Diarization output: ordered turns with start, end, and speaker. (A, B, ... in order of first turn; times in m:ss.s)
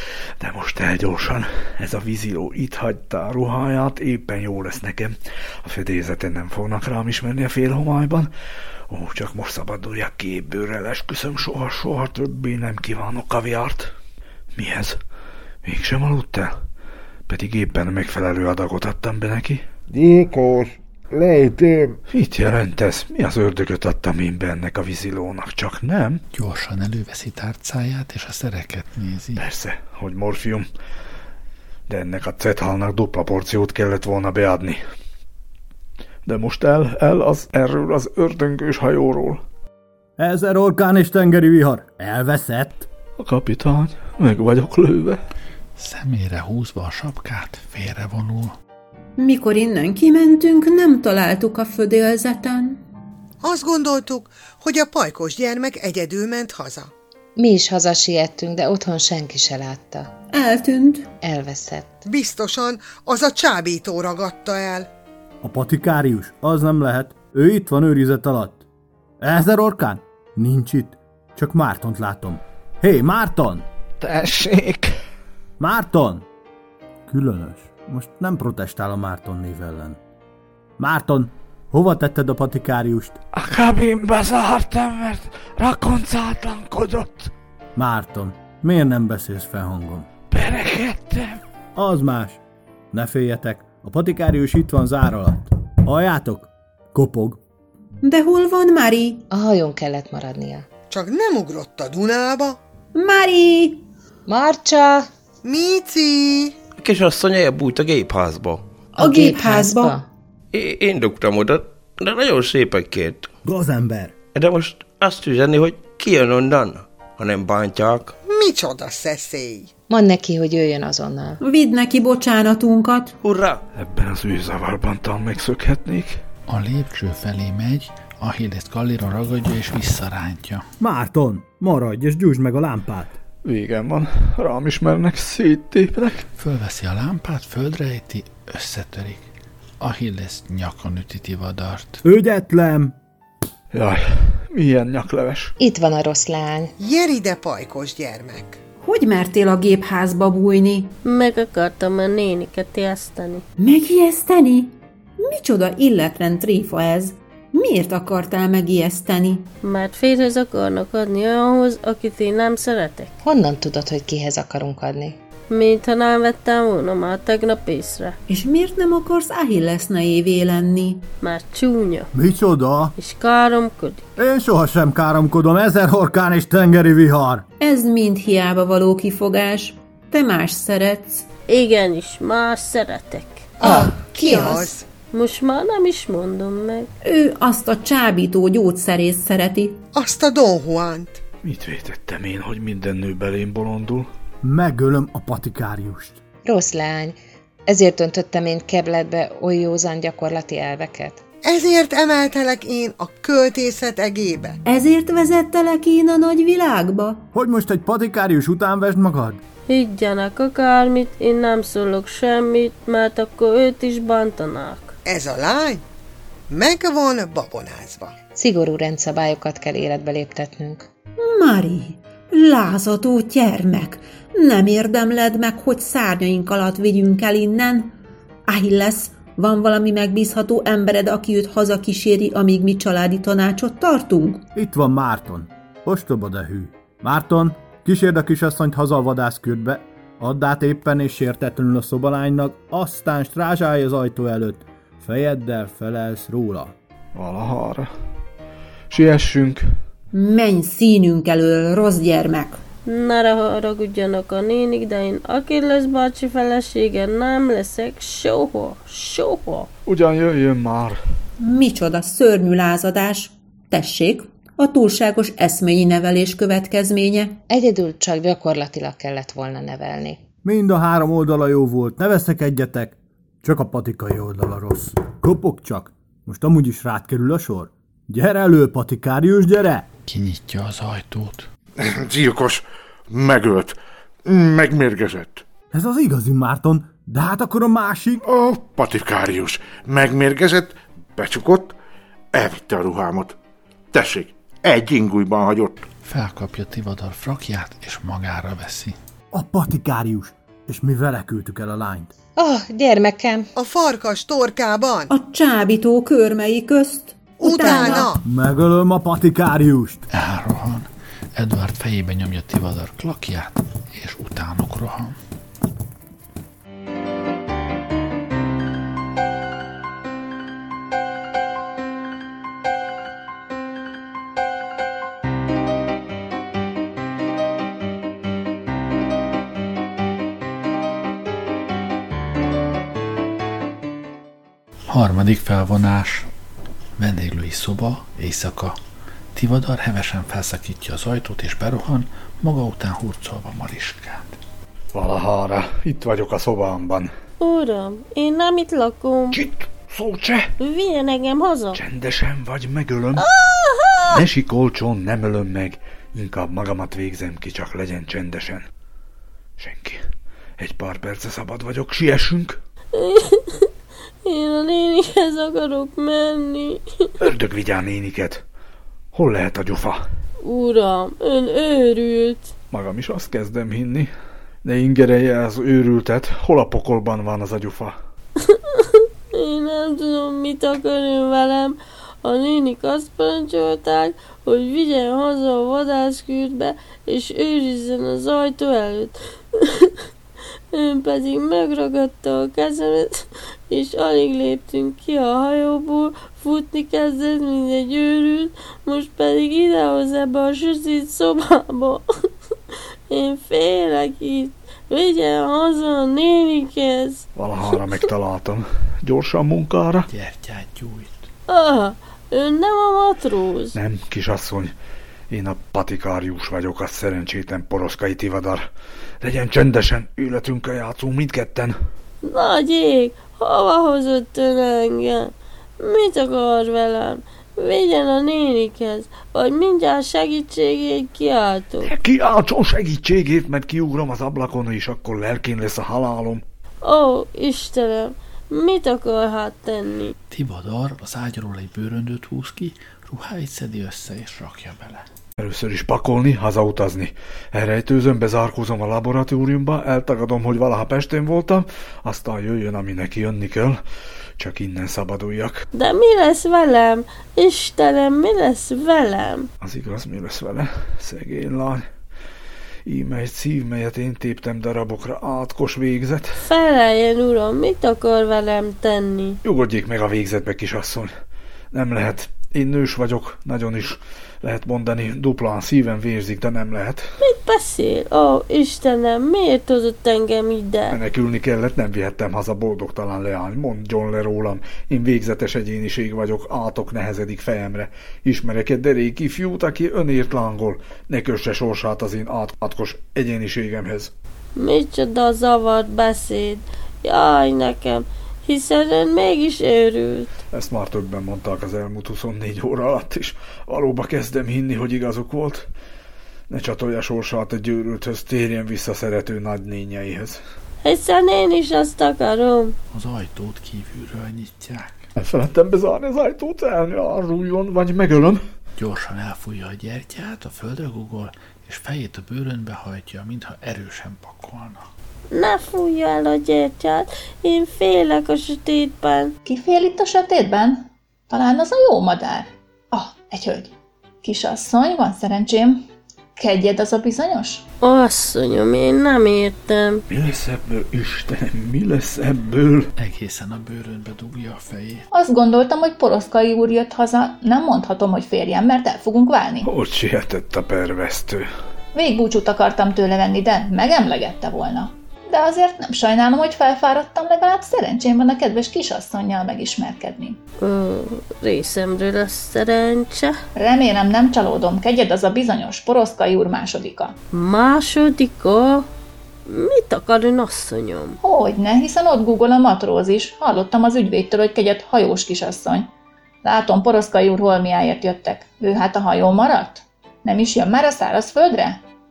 0:00.4-0:08.3 A
0:08.9-0:13.9 A
0:14.6-0:15.0 A
0:15.6-0:16.5 A
0:17.3-0:19.7 A
0:19.9-0:22.0 B
0:22.1-0:26.2 A
0:26.3-0:29.4 C
0:29.4-0:30.7 A
0:31.9-0:34.8 A
0:36.3-0:39.4 A
0:40.2-0:42.9 D
0:43.2-0:45.2 A
0:45.8-0:48.5 C
0:49.2-0:52.8 E
0:53.4-0:56.9 F
0:57.4-1:00.1 G
1:00.3-1:01.1 E
1:01.2-1:02.0 G
1:02.0-1:04.9 F
1:05.4-1:08.6 D
1:09.2-1:13.6 D
1:14.0-1:14.9 A
1:15.6-1:16.2 D
1:17.1-1:20.0 D
1:20.8-1:23.2 D
1:23.3-1:27.3 A
1:27.8-1:30.1 D
1:30.3-1:31.4 A
1:31.8-1:32.4 D
1:32.9-1:37.4 D
1:38.0-1:39.2 E
1:39.3-1:40.7 G
1:40.9-1:42.6 F
1:42.9-1:43.8 E
1:44.3-1:45.1 G
1:45.4-1:46.6 F
1:46.8-1:48.6 H
1:49.0-1:50.0 E
1:49.0-1:50.1 G
1:50.5-1:53.3 H
1:53.4-1:54.2 D
1:54.4-1:58.1 H
1:58.3-1:59.7 F
1:59.9-2:01.4 G
2:01.4-2:03.2 E
2:03.2-2:03.6 H
2:03.8-2:06.2 A
2:06.5-2:10.6 C
2:10.8-2:13.1 D
2:13.4-2:16.2 A
2:16.4-2:19.3 C
2:19.8-2:22.0 C
2:22.0-2:23.0 D
2:23.7-2:25.5 A
2:25.6-2:26.7 G
2:26.8-2:28.6 F
2:28.8-2:31.0 E
2:31.0-2:33.4 I
2:33.6-2:39.5 E
2:39.6-2:43.1 I
2:43.2-2:45.2 G
2:45.5-2:48.2 I
2:48.3-2:51.1 E
2:51.2-2:52.1 I
2:52.1-2:53.0 D
2:53.0-2:54.1 I
2:54.2-2:57.4 D
2:57.6-3:01.3 E
3:01.5-3:03.4 I
3:03.6-3:04.8 F
3:03.6-3:04.7 E
3:05.1-3:06.9 I
3:07.0-3:09.8 E
3:09.9-3:11.2 F
3:11.4-3:14.1 A
3:14.4-3:16.2 D
3:16.4-3:21.2 G
3:21.4-3:24.6 F
3:24.6-3:27.2 E
3:27.3-3:29.4 D
3:29.7-3:35.0 I
3:35.0-3:35.8 F
3:36.5-3:38.2 F
3:38.4-3:40.9 G
3:41.2-3:47.9 E
3:48.5-3:54.4 E
3:54.6-4:06.7 D
4:07.2-4:07.9 A
4:08.9-4:09.7 A
4:10.1-4:12.6 E
4:12.9-4:19.7 I
4:19.9-4:21.0 A
4:21.4-4:27.4 E
4:27.5-4:30.2 G
4:30.4-4:39.9 D
4:40.1-4:41.5 C
4:41.8-4:45.4 B
4:45.7-4:48.2 D
4:48.2-4:51.7 B
4:52.3-4:53.4 B
4:53.9-4:55.8 B
4:56.0-4:59.0 C
4:59.3-5:02.1 D
5:02.4-5:03.5 G
5:03.6-5:05.1 F
5:05.1-5:08.1 E
5:07.4-5:08.2 F
5:08.2-5:10.0 D
5:10.1-5:15.2 C
5:34.9-5:36.3 C
5:37.0-5:38.8 C
5:39.4-5:44.4 C
5:44.9-5:47.1 A
5:47.4-5:49.4 I
5:49.3-5:50.5 A
5:50.6-5:51.8 I
5:51.7-5:53.3 A
5:53.2-5:54.2 I
5:54.1-5:58.7 A
5:59.6-6:00.1 A
6:00.6-6:02.6 A
6:02.9-6:03.7 I
6:04.2-6:06.8 I
6:07.2-6:08.4 A
6:09.1-6:10.0 A
6:10.4-6:12.5 I
6:12.7-6:14.1 A
6:14.6-6:18.0 A
6:18.4-6:30.0 I
6:30.7-6:42.0 I
6:43.1-6:47.3 I
6:47.4-6:50.1 A
6:50.1-6:51.2 C
6:51.5-6:53.8 I
6:53.7-6:54.8 A
6:55.3-6:58.7 A
6:59.2-7:01.8 A
7:02.2-7:11.9 I
7:11.8-7:16.4 A
7:16.8-7:20.1 I
7:20.3-7:25.0 C
7:25.4-7:33.8 A
7:34.4-7:35.7 A
7:35.7-7:39.5 I
7:39.6-7:41.9 A
7:42.9-7:46.4 A
7:46.4-7:49.4 I
7:49.4-7:51.1 A
7:51.7-7:57.1 A
7:57.2-8:01.0 I
8:00.9-8:14.1 A
8:14.6-8:20.3 I
8:20.5-8:25.7 A
8:26.5-8:30.4 A
8:30.8-8:32.8 I
8:32.9-8:34.9 C
8:35.2-8:38.4 A
8:38.8-8:44.8 C
8:45.3-8:49.4 I
8:49.4-8:53.7 J
8:54.2-8:55.8 J
8:56.4-8:57.6 J
8:57.8-9:00.0 I
9:00.1-9:02.9 A
9:03.0-9:05.1 C
9:05.1-9:09.7 J
9:09.6-9:11.5 A
9:11.9-9:20.4 J
9:20.6-9:23.4 I
9:23.6-9:27.2 J
9:27.3-9:28.9 I
9:29.5-9:31.2 I
9:31.2-9:35.9 J
9:36.4-9:41.8 J